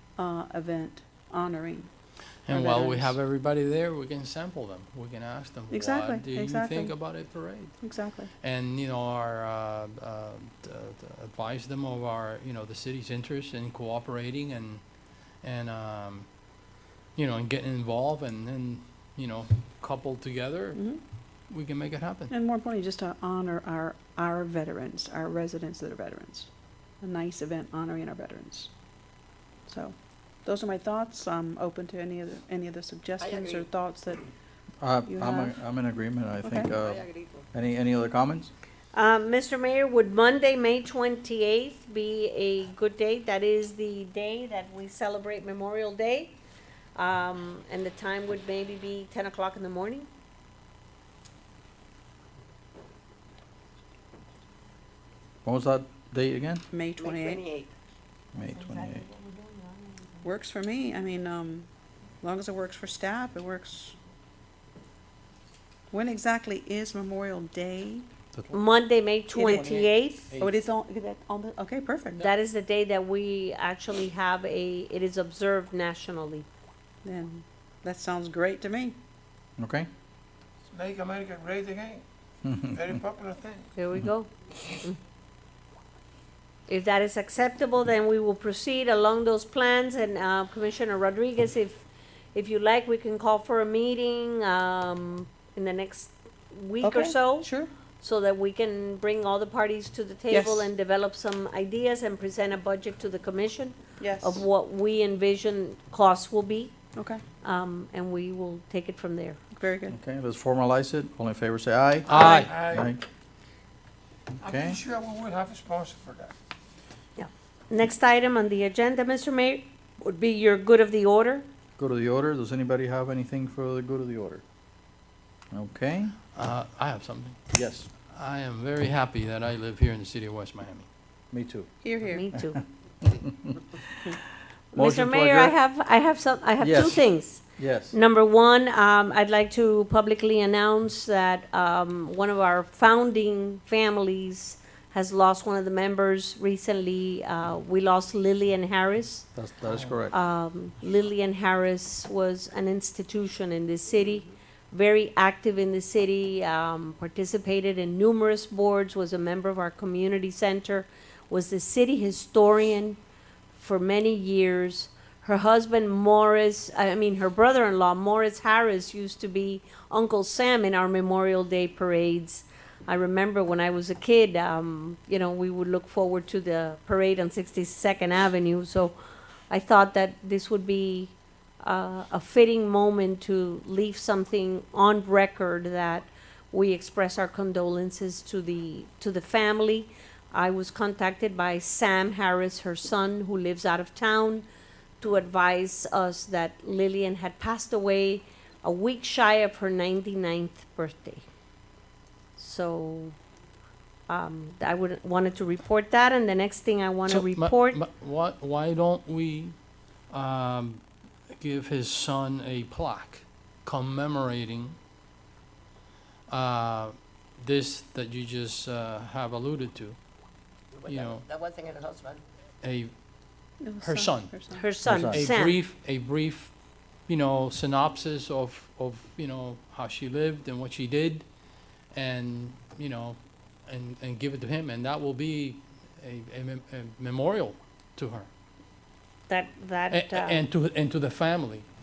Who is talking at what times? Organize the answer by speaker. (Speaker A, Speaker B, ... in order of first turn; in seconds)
Speaker A: 0.2-1.9, 2.5-3.2, 5.7-6.9, 7.8-8.3, 20.8-21.0, 22.3-26.5, 27.0-28.7, 29.7-34.2, 35.1-35.6, 36.4-36.7, 56.7-57.5, 60.2-61.7, 62.2-64.0, 65.9-68.1, 69.3-69.7, 70.4-72.2, 77.0-79.0, 96.8-97.7, 100.3-100.7, 104.0-104.4, 107.0-107.2, 109.6-110.0, 131.8-132.2, 223.6-224.7
Speaker B: 2.4-7.8, 8.4-14.8, 15.4-16.3, 17.1-20.8, 21.5-22.3, 68.3-68.6, 69.4-70.5, 112.1-112.5, 126.3-127.4, 128.1-130.9, 149.7-150.0, 207.1-209.6, 210.1-210.8, 211.4-214.8, 216.3-220.0, 220.8-221.3, 222.6-222.9, 223.8-224.4, 224.9-226.5, 227.1-231.2, 231.9-238.3, 239.9-241.7
Speaker C: 33.2-33.7, 36.9-37.5, 57.0-57.7, 58.7-59.7, 220.8-222.2
Speaker D: 34.8-38.5, 55.5-56.6, 58.4-59.1, 79.6-79.9, 82.5-82.8, 109.9-113.0, 114.4-114.8, 121.8-124.4, 125.5-126.2, 127.5-127.9, 131.3-131.7, 133.0-133.8, 134.8-135.6, 136.6-137.9, 149.3-150.2, 224.8-225.3
Speaker E: 38.9-46.4, 47.0-50.1, 68.5-70.3, 72.2-76.5, 83.8-84.3, 86.7-106.7, 107.4-109.4, 117.2-121.5, 132.0-132.6, 134.7-149.3, 150.1-163.0, 163.5-178.9, 179.5-194.5, 195.0-201.2, 202.4-203.2, 204.1-207.8, 224.5-225.6, 239.3-240.4
Speaker F: 80.7-82.0, 82.7-83.7, 112.2-112.9, 114.4-116.3